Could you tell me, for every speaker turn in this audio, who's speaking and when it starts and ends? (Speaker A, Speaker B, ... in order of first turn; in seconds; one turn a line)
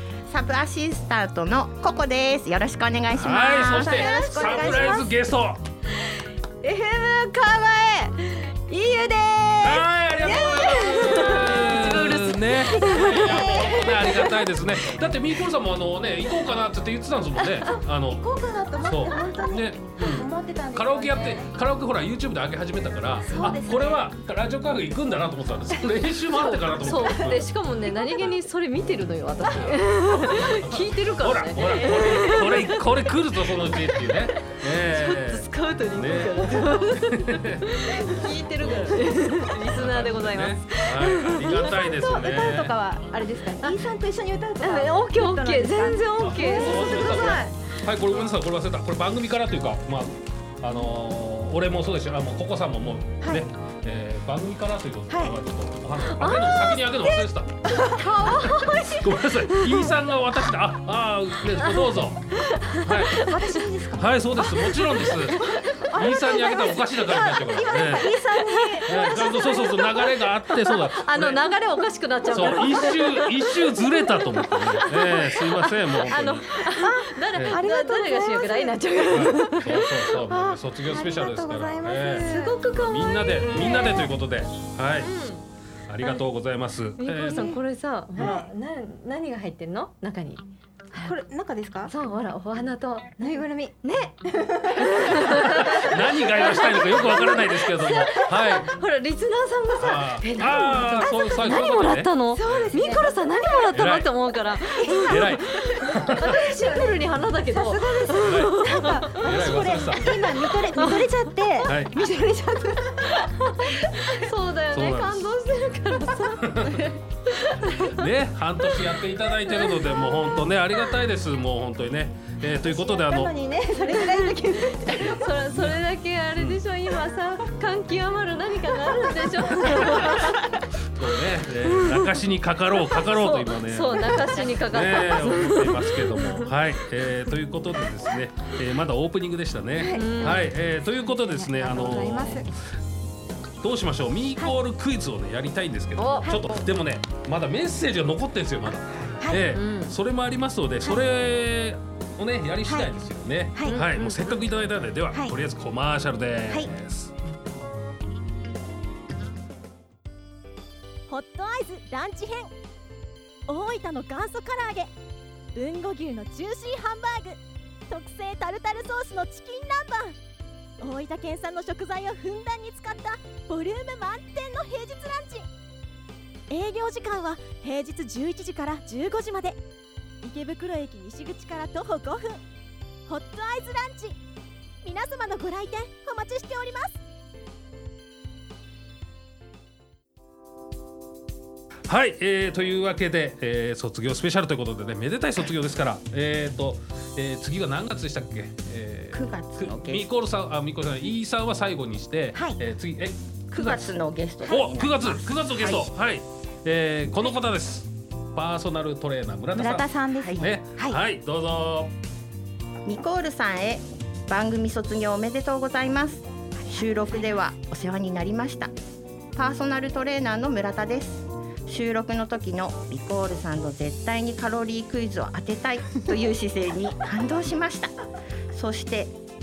Speaker A: 0.3-4.2
Speaker B: 3.1-5.6
Speaker C: 3.2-5.1
Speaker D: 4.2-4.5
Speaker D: 6.6-14.4
Speaker B: 9.6-18.3
Speaker C: 10.2-11.5
Speaker C: 12.7-13.9
Speaker D: 17.4-17.8
Speaker C: 18.0-21.5
Speaker B: 18.8-27.5
Speaker C: 23.2-24.1
Speaker D: 26.4-41.9
Speaker B: 30.3-37.6
Speaker B: 38.6-39.0
Speaker B: 39.7-42.7
Speaker C: 41.5-47.5
Speaker D: 44.6-47.4
Speaker B: 46.2-57.6
Speaker C: 55.1-55.4
Speaker D: 56.0-56.9
Speaker C: 57.0-59.9
Speaker D: 58.1-58.8
Speaker B: 59.0-62.3
Speaker D: 61.6-63.6
Speaker B: 62.8-63.2
Speaker C: 63.2-64.6
Speaker B: 64.0-65.4
Speaker C: 65.3-69.8
Speaker B: 65.9-68.2
Speaker D: 68.4-79.8
Speaker B: 68.9-71.5
Speaker B: 72.3-76.6
Speaker C: 76.8-78.8
Speaker B: 77.3-77.6
Speaker B: 79.1-85.1
Speaker C: 79.3-82.6
Speaker D: 82.2-84.2
Speaker D: 85.0-85.4
Speaker B: 85.9-87.5
Speaker D: 87.0-91.1
Speaker C: 87.2-87.6
Speaker C: 88.2-88.5
Speaker C: 91.0-92.0
Speaker D: 91.9-94.1
Speaker C: 93.2-95.9
Speaker D: 94.8-109.9
Speaker B: 95.5-98.7
Speaker B: 99.8-102.8
Speaker C: 101.4-101.7
Speaker C: 102.3-103.7
Speaker B: 103.7-104.1
Speaker C: 104.7-105.7
Speaker B: 105.1-106.4
Speaker C: 107.5-113.2
Speaker B: 108.2-110.1
Speaker D: 110.8-111.1
Speaker B: 111.7-111.9
Speaker D: 113.2-118.1
Speaker B: 114.7-115.3
Speaker B: 116.4-116.9
Speaker B: 117.9-123.3
Speaker D: 119.5-119.8
Speaker C: 122.4-125.3
Speaker D: 123.8-124.3
Speaker D: 124.9-130.5
Speaker B: 125.5-125.8
Speaker B: 126.4-126.6
Speaker B: 129.6-130.2
Speaker B: 130.9-142.5
Speaker D: 131.7-132.2
Speaker D: 132.9-136.5
Speaker C: 139.8-142.5
Speaker D: 139.9-140.4
Speaker B: 143.6-157.1
Speaker D: 146.0-146.4
Speaker C: 149.2-149.5
Speaker D: 149.5-150.0
Speaker D: 153.7-154.4
Speaker C: 155.1-155.4
Speaker E: 161.1-162.5
Speaker E: 163.5-164.9
Speaker E: 165.5-170.2
Speaker E: 170.8-175.5
Speaker E: 176.5-179.6
Speaker E: 180.2-182.4
Speaker E: 183.1-184.2
Speaker E: 184.8-187.0
Speaker B: 191.9-211.9
Speaker A: 199.1-200.1
Speaker C: 202.3-202.6
Speaker A: 203.5-205.9
Speaker C: 209.5-211.0
Speaker A: 210.2-210.5
Speaker A: 212.8-218.7
Speaker C: 216.6-217.4
Speaker A: 219.3-227.9
Speaker A: 228.5-229.1